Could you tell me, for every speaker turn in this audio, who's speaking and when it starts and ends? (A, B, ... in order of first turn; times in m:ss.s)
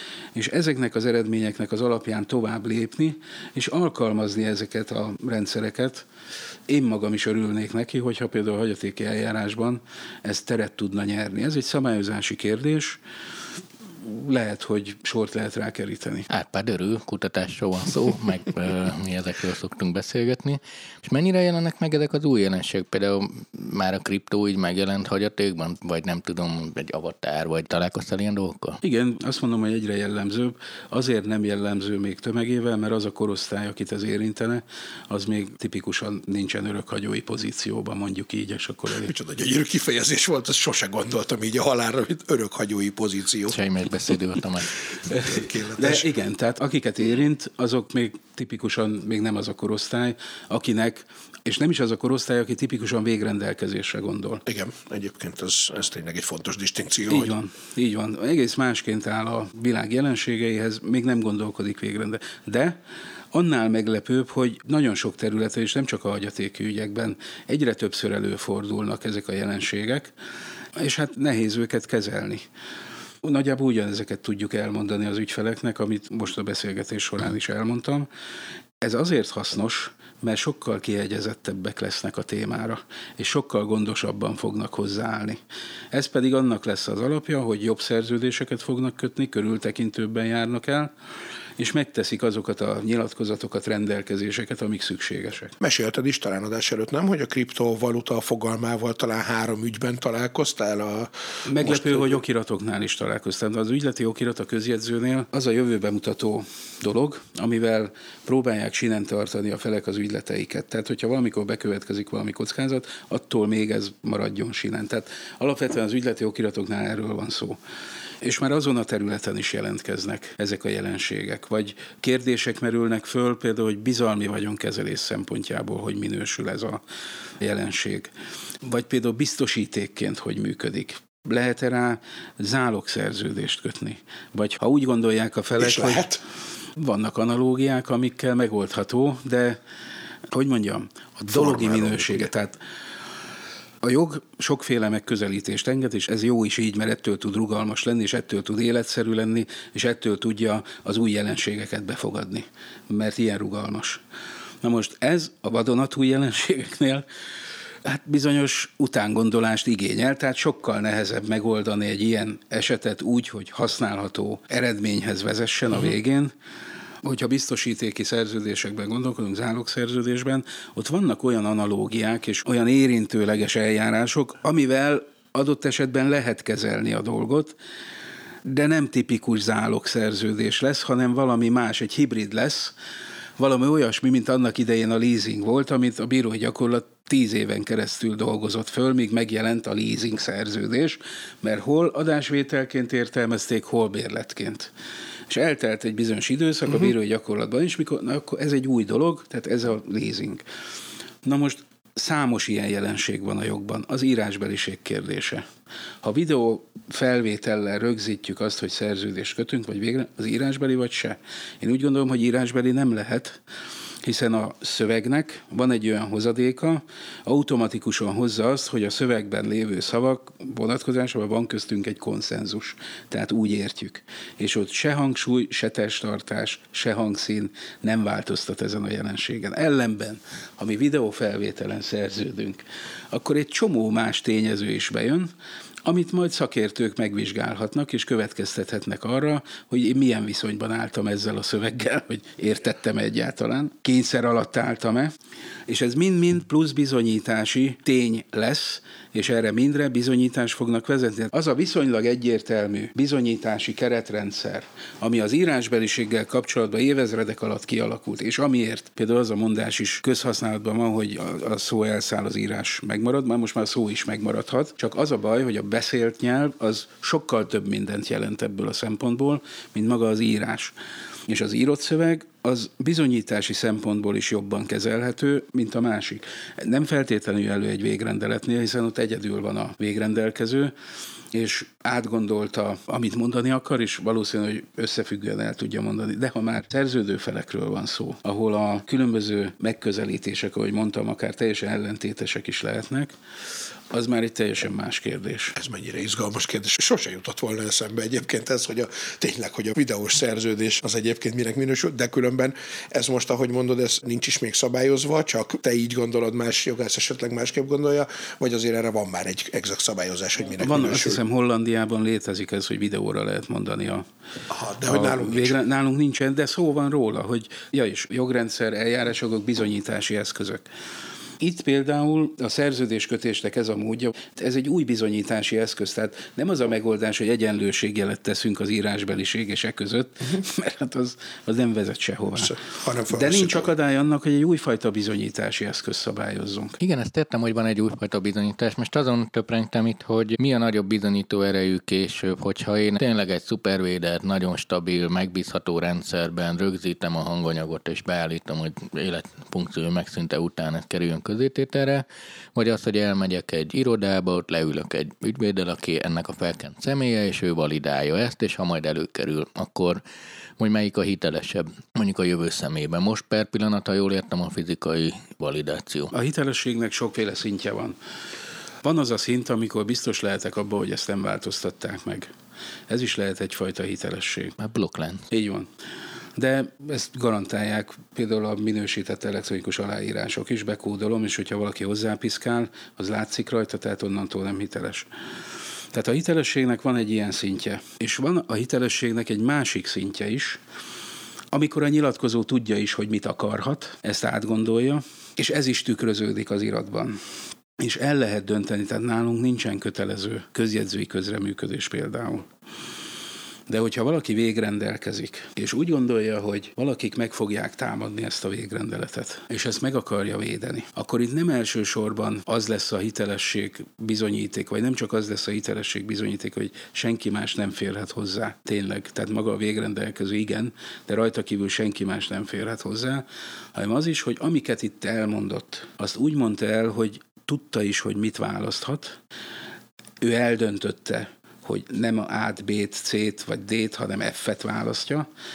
0:00.3-0:06.0 A
0:06.7-0:13.0 A
0:14.0-0:16.3 A
0:16.3-0:28.8 B
0:28.8-0:39.1 A
0:39.0-0:43.6 C
0:43.5-0:44.8 B
0:45.1-0:46.0 C
0:45.1-0:54.4 A
0:54.4-0:57.3 C
0:57.1-1:02.8 A
1:03.3-1:10.1 A
1:10.8-1:12.4 A
1:13.2-1:18.1 A
1:18.8-1:25.4 A
1:25.9-1:30.9 A
1:31.6-1:35.5 A
1:35.6-1:42.2 C
1:41.4-1:57.6 A
1:58.2-2:06.8 A
2:07.4-2:08.1 A
2:08.6-2:16.1 A
2:15.6-2:16.2 C
2:16.8-2:19.6 A
2:20.3-2:22.6 A
2:21.3-2:22.3 C
2:23.8-2:34.0 A
2:34.6-2:37.0 A
2:37.8-2:46.3 A
2:47.0-2:57.5 A
2:58.4-3:02.7 A
3:03.4-3:14.7 A
3:15.3-3:20.4 A
3:21.2-3:25.4 A
3:26.0-3:33.4 A
3:34.0-3:55.3 A
3:55.8-4:05.1 A
4:05.7-4:30.7 A
4:31.3-4:40.7 A
4:41.3-4:53.1 A
4:53.9-4:55.6 A
4:55.6-5:11.2 C
5:10.6-5:14.1 A
5:14.5-5:15.6 C
5:14.9-5:20.6 A
5:21.4-5:32.5 A
5:32.4-5:33.7 C
5:33.1-5:36.8 A
5:36.8-5:52.0 B
5:52.6-6:00.0 B
6:00.6-6:06.1 B
6:06.1-6:08.0 A
6:08.8-6:12.3 A
6:12.9-6:14.6 A
6:14.6-6:15.2 B
6:15.3-6:15.7 A
6:16.4-6:25.1 A
6:25.9-6:30.6 A
6:31.5-6:37.2 A
6:37.8-6:42.5 A
6:43.7-7:09.2 A
7:10.2-7:15.3 A